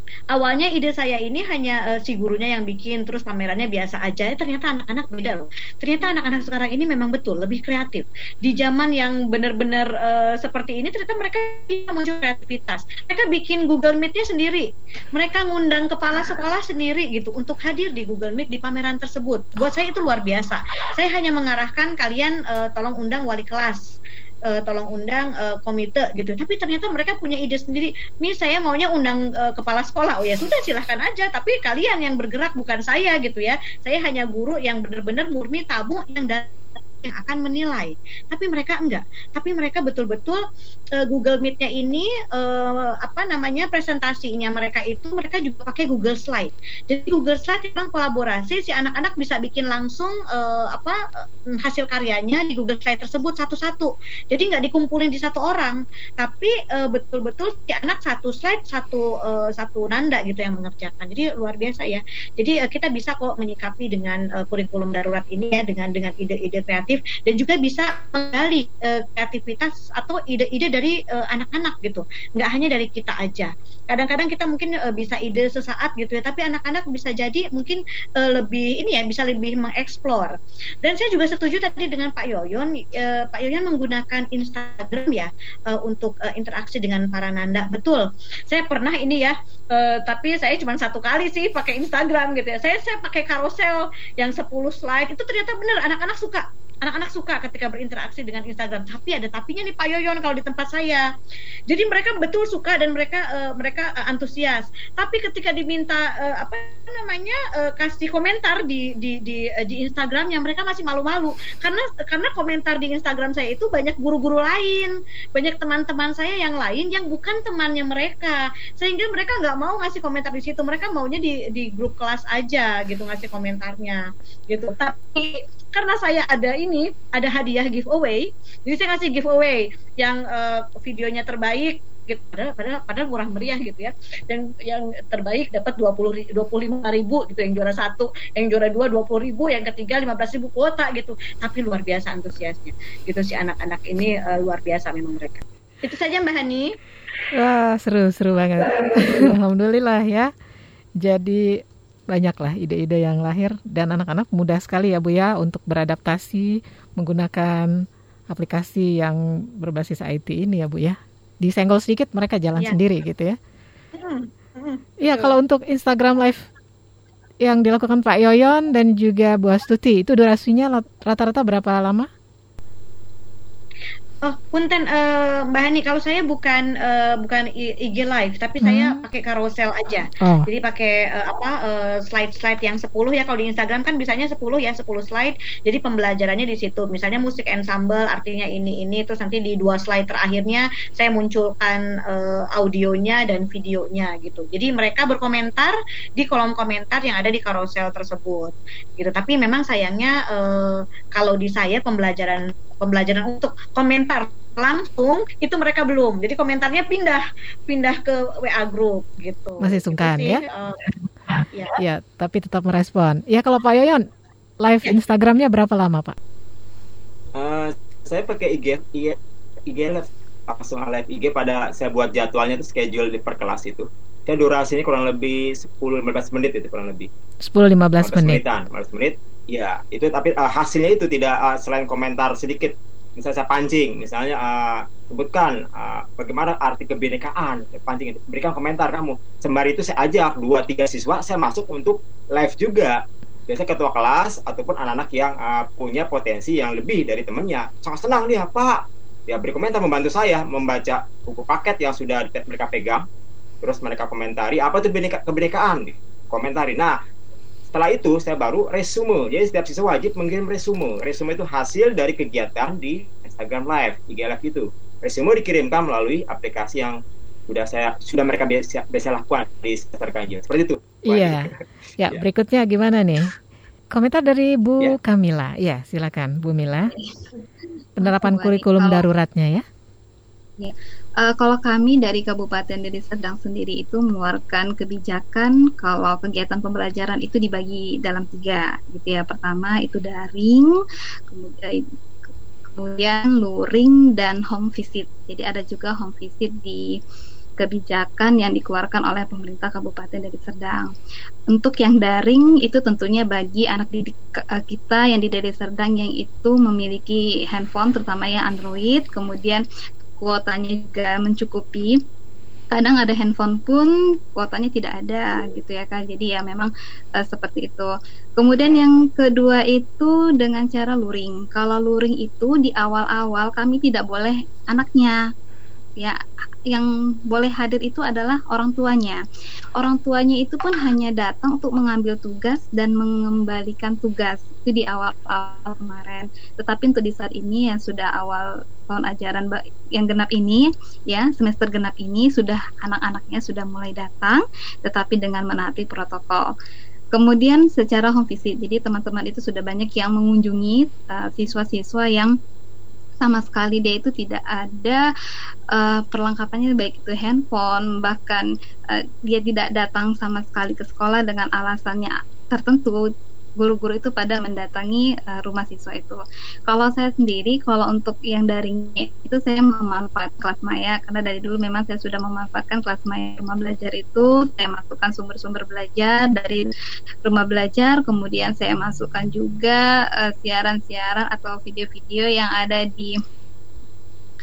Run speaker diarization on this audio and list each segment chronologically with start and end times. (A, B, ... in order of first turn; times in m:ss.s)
0:00.3-0:23.8 A
0:24.5-0:36.5 A
0:37.0-0:40.4 A
0:41.0-0:51.0 A
0:51.6-1:41.1 A
1:41.7-2:26.8 A
2:27.3-2:30.3 B
2:31.0-2:43.4 B
2:44.0-2:45.4 A
2:45.0-2:46.5 B
2:47.4-2:52.1 B
2:54.2-3:30.9 A
2:58.6-2:59.0 B
3:00.2-3:00.5 B
3:29.6-3:30.4 B
3:31.5-3:31.8 A
3:31.8-3:34.1 B
3:34.6-3:36.2 B
3:37.4-3:47.1 C
3:47.4-3:48.4 B
3:48.0-4:13.0 C
4:13.6-4:17.0 C
4:17.7-4:32.2 C
4:31.0-4:33.3 B
4:33.9-4:36.9 B
4:36.9-4:37.4 D
4:38.0-4:39.1 D
4:38.0-4:39.6 B
4:40.6-4:50.7 D
4:51.3-4:51.9 D
4:52.8-4:56.9 D
4:57.6-5:00.9 D
5:01.5-5:09.6 D
5:10.2-5:12.0 D
5:12.7-5:25.2 D
5:26.7-5:29.2 D
5:29.8-5:46.4 D
5:47.1-5:52.3 D
5:53.2-5:55.0 D
5:55.7-6:03.1 D
6:03.6-6:16.7 D
6:17.2-6:23.2 D